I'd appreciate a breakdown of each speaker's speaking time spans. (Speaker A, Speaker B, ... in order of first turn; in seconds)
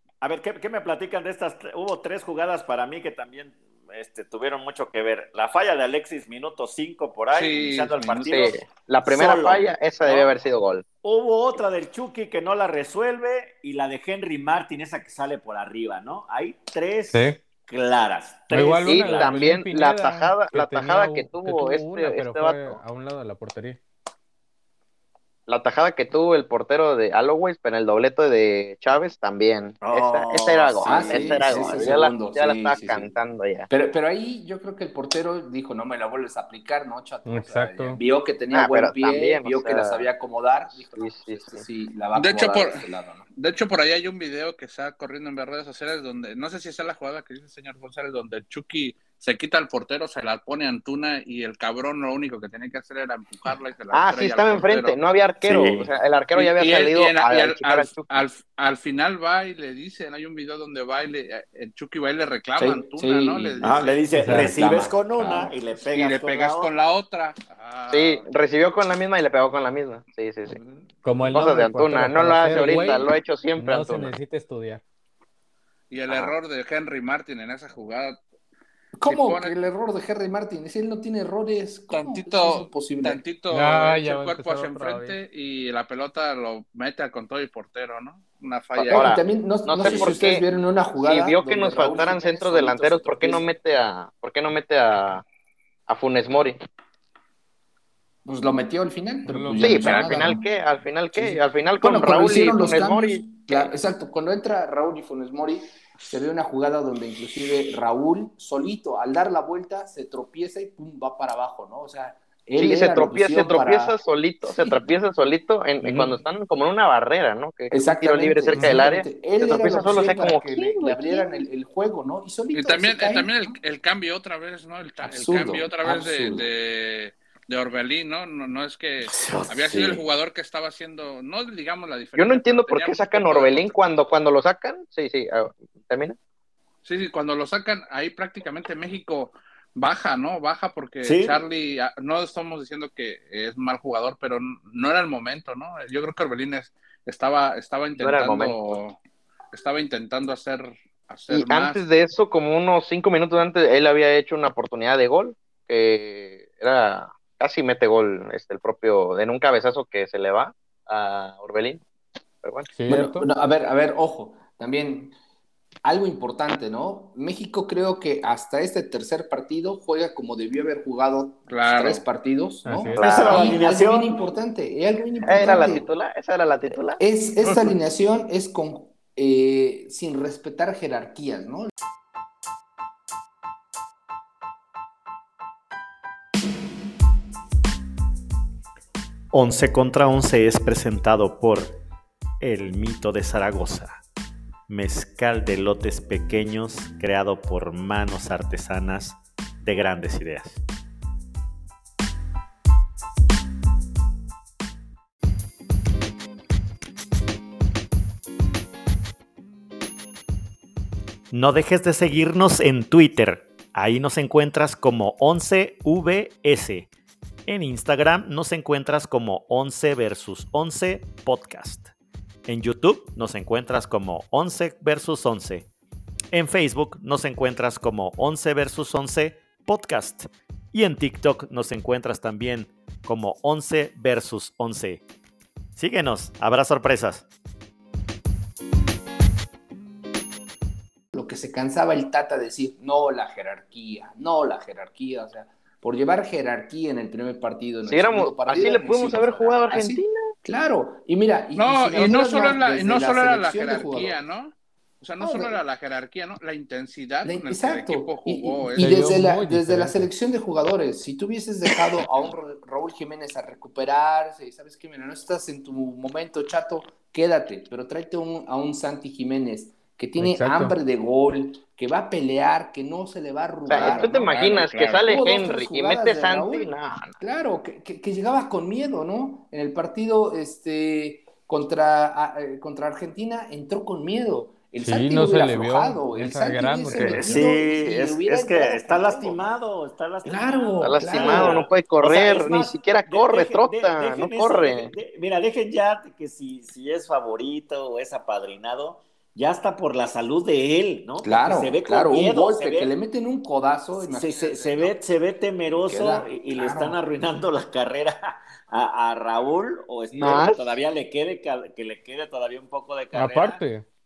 Speaker A: 0.2-10.3, 11.0-19.4, 29.8-32.0, 55.4-55.9, 63.6-66.7, 70.6-70.8, 89.8-90.2, 141.0-141.4, 173.0-174.2, 286.9-302.9, 304.0-313.6
Speaker B: 7.3-8.5, 42.1-42.9, 43.4-55.0, 56.4-64.0, 65.8-68.3, 75.9-78.2, 79.1-79.6, 81.9-89.2, 122.5-133.8, 136.8-149.0, 149.5-151.8, 171.5-172.0, 251.6-259.1, 273.7-275.2
Speaker C: 8.3-10.8, 18.8-22.8, 25.5-33.7, 38.5-40.1, 40.9-41.6, 53.9-58.2, 67.9-70.6, 71.3-74.1, 76.1-76.3, 88.8-90.5, 91.0-95.2, 95.9-96.6, 99.6-103.7, 112.6-121.4, 132.2-136.2, 148.0-148.8, 151.3-161.8, 162.4-162.7, 173.0-173.6, 175.2-177.0, 247.8-250.2, 273.7-277.1, 290.8-294.9, 310.2-310.8
Speaker D: 17.1-17.4, 18.5-23.8, 37.3-38.0, 64.1-64.6, 71.0-74.8, 83.5-85.2, 99.3-100.2, 118.5-118.8, 162.7-163.3, 172.7-173.1, 258.8-260.1, 270.2-270.8, 284.8-287.4, 313.1-313.9
Speaker E: 30.8-33.1, 33.7-43.3, 62.6-65.5, 79.0-83.2, 88.8-93.5, 98.2-100.4, 101.1-114.8, 115.8-116.2, 117.7-123.5, 125.0-126.5, 162.9-165.2, 165.8-175.9, 177.0-181.7, 241.1-254.2, 255.2-255.6, 257.2-274.4, 275.0-289.5, 290.2-291.7, 301.2-305.0, 305.9-307.0
Speaker F: 189.3-191.8, 192.4-194.0, 194.7-200.6, 211.3-216.9, 217.5-221.9, 222.5-225.7, 226.3-235.0, 235.8-237.3